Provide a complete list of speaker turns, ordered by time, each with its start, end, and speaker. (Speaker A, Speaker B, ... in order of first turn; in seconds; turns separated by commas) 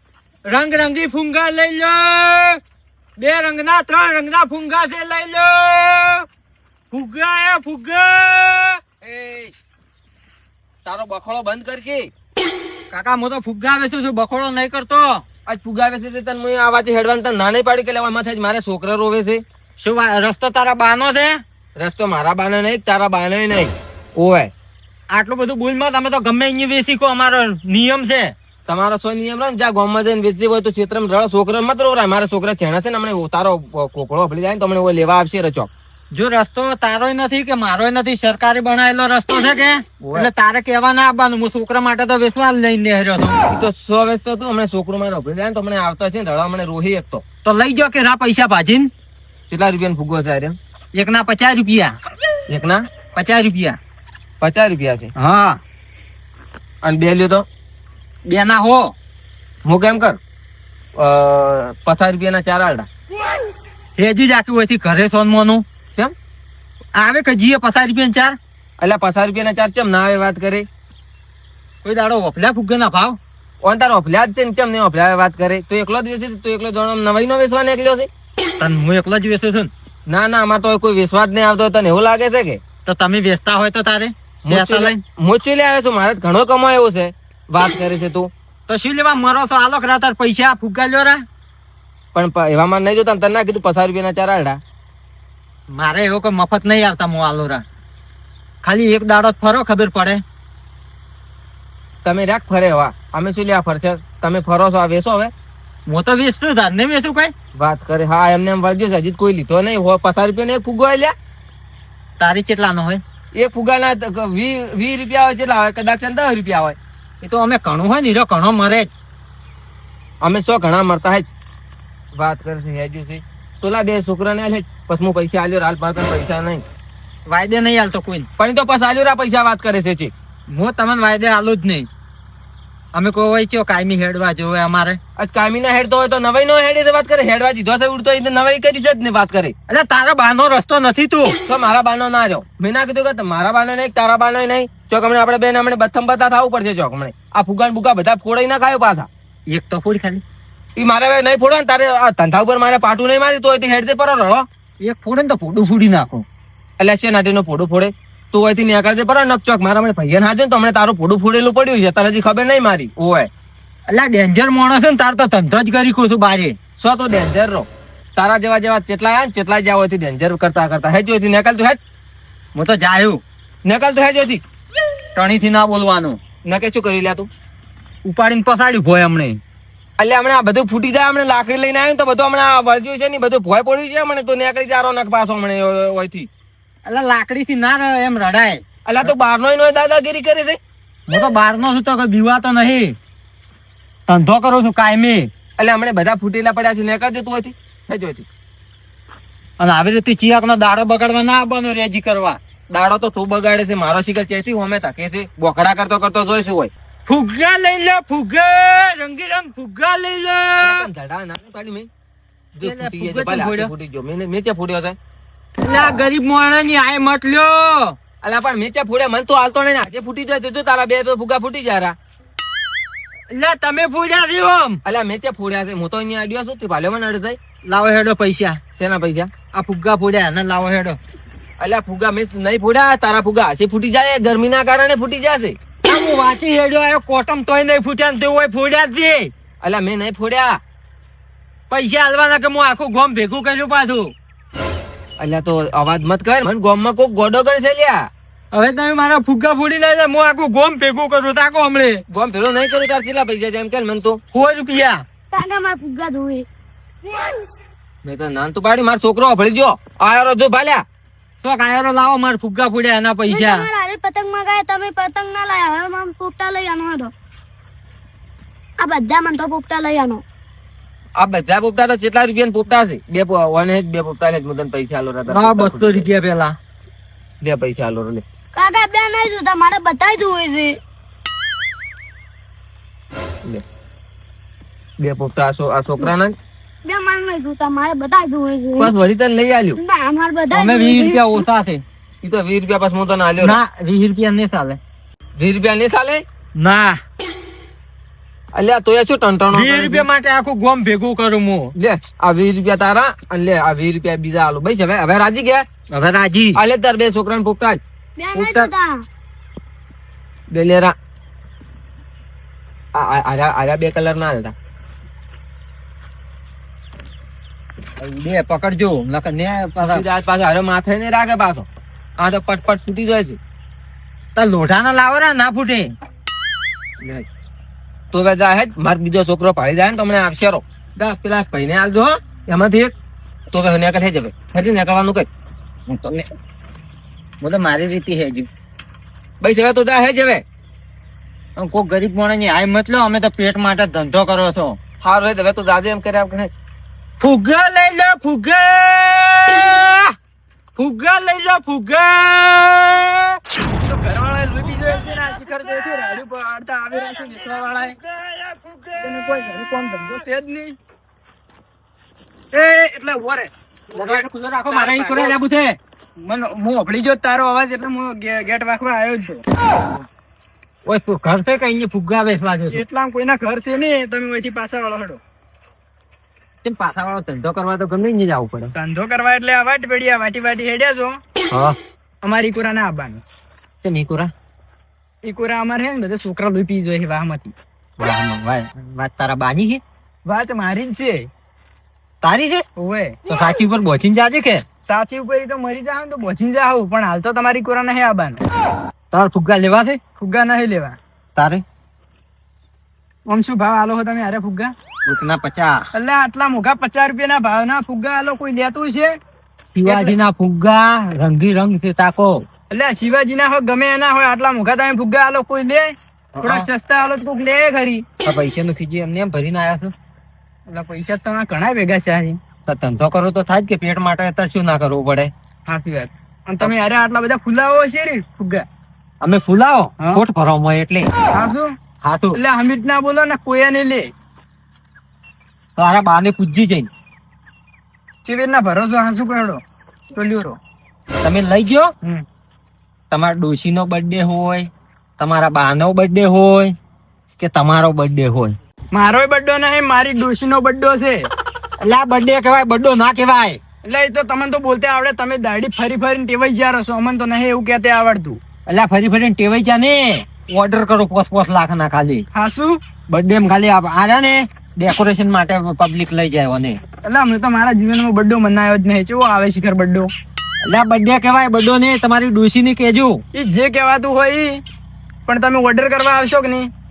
Speaker A: 0.5-2.6, Speaker A: 3.2-6.2, Speaker A: 6.9-8.8, Speaker B: 9.0-9.5, Speaker B: 10.8-12.1, Speaker A: 12.9-15.2, Speaker B: 15.5-19.4, Speaker A: 19.8-21.4, Speaker B: 21.8-24.5, Speaker A: 25.1-28.3, Speaker B: 28.7-35.7, Speaker A: 36.1-43.4, Speaker B: 40.0-40.3, Speaker B: 43.5-47.2, Speaker A: 47.4-48.9, Speaker B: 49.5-50.6, Speaker A: 50.9-51.9, Speaker B: 52.5-52.8, Speaker A: 53.1-53.8, Speaker B: 54.4-55.1, Speaker A: 55.2-55.6, Speaker B: 56.8-57.5, Speaker A: 58.3-58.9, Speaker B: 59.7-60.2, Speaker B: 61.0-62.9, Speaker A: 64.0-65.7, Speaker A: 67.0-68.4, Speaker B: 68.8-70.7, Speaker A: 71.8-73.2, Speaker B: 73.6-78.1, Speaker A: 78.6-79.7, Speaker B: 80.1-82.6, Speaker A: 82.9-85.0, Speaker B: 84.4-88.3, Speaker A: 88.7-91.2, Speaker B: 92.2-94.6, Speaker A: 95.7-97.6, Speaker A: 98.6-100.2, Speaker B: 102.0-105.3, Speaker A: 105.9-107.3, Speaker B: 107.5-111.1, Speaker A: 112.2-113.0, Speaker B: 113.3-116.8, Speaker A: 117.2-118.9, Speaker B: 120.2-121.3, Speaker B: 122.2-126.6, Speaker A: 127.3-128.3, Speaker B: 128.4-130.1, Speaker A: 130.5-131.9, Speaker A: 132.9-135.0, Speaker B: 135.2-139.5, Speaker A: 139.7-141.4, Speaker B: 141.4-149.1, Speaker A: 149.5-150.2, Speaker B: 150.8-154.5, Speaker A: 154.8-156.3, Speaker B: 156.8-163.3, Speaker A: 163.9-166.6, Speaker B: 166.8-171.8, Speaker A: 172.6-173.2, Speaker B: 173.7-174.4, Speaker A: 175.2-176.2, Speaker B: 176.5-177.3, Speaker A: 178.1-179.4, Speaker B: 180.0-186.3, Speaker A: 186.9-188.6, Speaker B: 188.9-190.6, Speaker A: 191.1-192.9, Speaker A: 194.1-195.3, Speaker B: 195.6-198.3, Speaker A: 199.6-202.4, Speaker B: 202.7-206.7, Speaker A: 207.1-210.9, Speaker B: 210.6-211.9, Speaker A: 212.6-213.7, Speaker B: 212.6-215.0, Speaker A: 215.6-218.0, Speaker B: 218.2-221.9, Speaker A: 223.3-224.8, Speaker B: 224.8-227.4, Speaker A: 227.7-228.6, Speaker B: 228.8-229.3, Speaker A: 229.5-231.0, Speaker B: 231.6-235.6, Speaker A: 235.8-239.3, Speaker B: 239.6-240.6, Speaker A: 241.7-244.1, Speaker B: 245.2-248.1, Speaker A: 248.5-252.0, Speaker B: 252.1-254.2, Speaker A: 254.3-255.0, Speaker C: 255.3-256.5, Speaker B: 258.1-260.8, Speaker A: 261.4-263.7, Speaker C: 263.3-267.1, Speaker C: 268.8-270.2, Speaker B: 271.2-276.1, Speaker A: 275.3-276.6, Speaker B: 277.4-278.2, Speaker C: 278.6-280.8, Speaker B: 285.0-286.3, Speaker C: 286.9-288.9, Speaker B: 288.8-289.8, Speaker C: 289.8-291.5, Speaker A: 290.5-291.8, Speaker B: 292.2-293.6, Speaker A: 293.4-294.8, Speaker B: 295.4-296.2, Speaker A: 296.6-297.0, Speaker B: 298.6-300.1, Speaker A: 299.5-301.7, Speaker B: 301.8-305.7, Speaker A: 305.9-306.6, Speaker B: 306.6-307.8, Speaker C: 308.2-308.9, Speaker A: 308.4-308.7, Speaker B: 310.5-310.9, Speaker B: 312.9-314.5, Speaker A: 318.0-320.0, Speaker B: 319.8-321.7, Speaker B: 322.2-323.4, Speaker A: 324.4-325.9, Speaker B: 328.1-332.9, Speaker B: 333.5-335.3, Speaker B: 335.9-336.2, Speaker A: 337.4-338.5, Speaker B: 339.4-340.4, Speaker A: 341.6-344.8, Speaker B: 345.0-346.5, Speaker A: 347.2-350.1, Speaker A: 350.8-353.4, Speaker D: 353.9-358.0, Speaker A: 357.4-359.2, Speaker D: 359.0-360.8, Speaker D: 362.6-365.4, Speaker A: 363.9-365.8, Speaker D: 366.2-369.4, Speaker A: 370.9-372.8, Speaker D: 372.7-375.2, Speaker A: 376.6-378.7, Speaker D: 378.8-381.2, Speaker A: 381.5-381.8, Speaker D: 382.2-383.2, Speaker A: 383.8-384.3, Speaker D: 385.2-387.5, Speaker A: 388.0-389.8, Speaker D: 390.2-391.3, Speaker A: 392.2-392.6, Speaker D: 392.8-393.2, Speaker A: 393.3-394.6, Speaker D: 394.9-398.4, Speaker A: 399.1-400.0, Speaker D: 400.2-401.0, Speaker A: 401.4-401.6, Speaker D: 403.3-404.7, Speaker A: 405.1-405.9, Speaker D: 405.9-409.2, Speaker A: 409.8-412.4, Speaker D: 409.9-410.1, Speaker D: 412.7-418.0, Speaker A: 416.4-416.7, Speaker A: 418.2-419.9, Speaker D: 420.7-422.4, Speaker A: 422.7-425.3, Speaker D: 425.7-428.6, Speaker A: 429.2-431.1, Speaker D: 431.3-431.7, Speaker A: 432.0-432.4, Speaker D: 432.4-434.1, Speaker A: 435.8-436.9, Speaker D: 438.2-439.6, Speaker D: 440.1-440.6, Speaker A: 441.2-441.9, Speaker A: 443.1-446.7, Speaker A: 447.4-448.6, Speaker D: 448.9-451.3, Speaker A: 451.8-453.6, Speaker D: 453.9-458.4, Speaker A: 458.7-462.3, Speaker D: 462.3-462.8, Speaker A: 463.1-466.8, Speaker D: 467.1-470.1, Speaker A: 470.6-473.2, Speaker D: 473.3-474.6, Speaker D: 475.3-476.7